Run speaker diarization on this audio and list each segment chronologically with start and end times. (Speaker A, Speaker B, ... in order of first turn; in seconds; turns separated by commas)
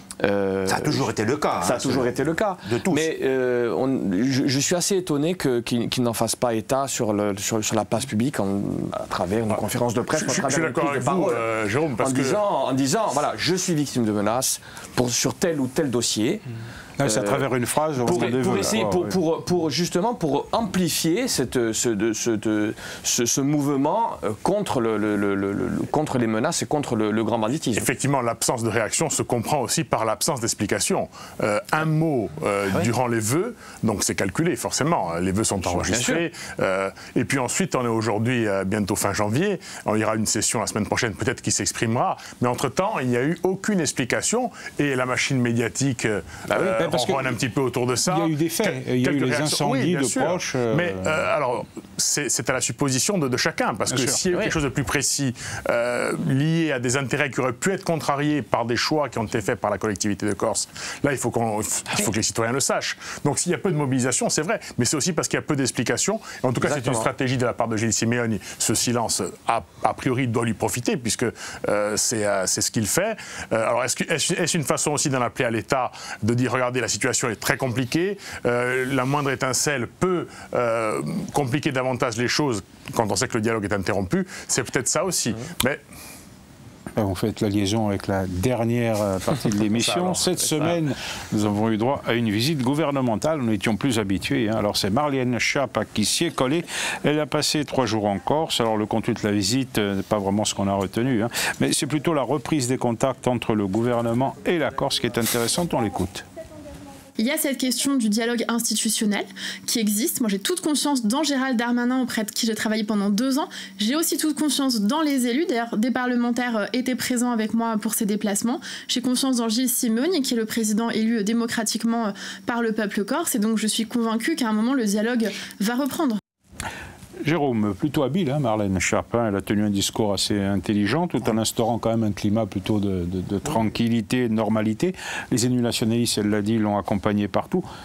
Speaker A: 0.2-1.1, Speaker B: 0.7-3.1, Speaker A: 1.6-11.5, Speaker C: 10.1-12.4, Speaker A: 12.0-16.4, Speaker D: 17.0-19.2, Speaker A: 17.0-27.9, Speaker C: 27.8-85.8, Speaker A: 35.6-36.2, Speaker A: 46.5-47.0, Speaker D: 46.8-47.4, Speaker D: 48.0-51.3, Speaker D: 53.9-54.2, Speaker A: 66.6-67.1, Speaker D: 87.0-106.2, Speaker C: 89.8-90.7, Speaker E: 107.2-126.2, Speaker D: 127.2-137.6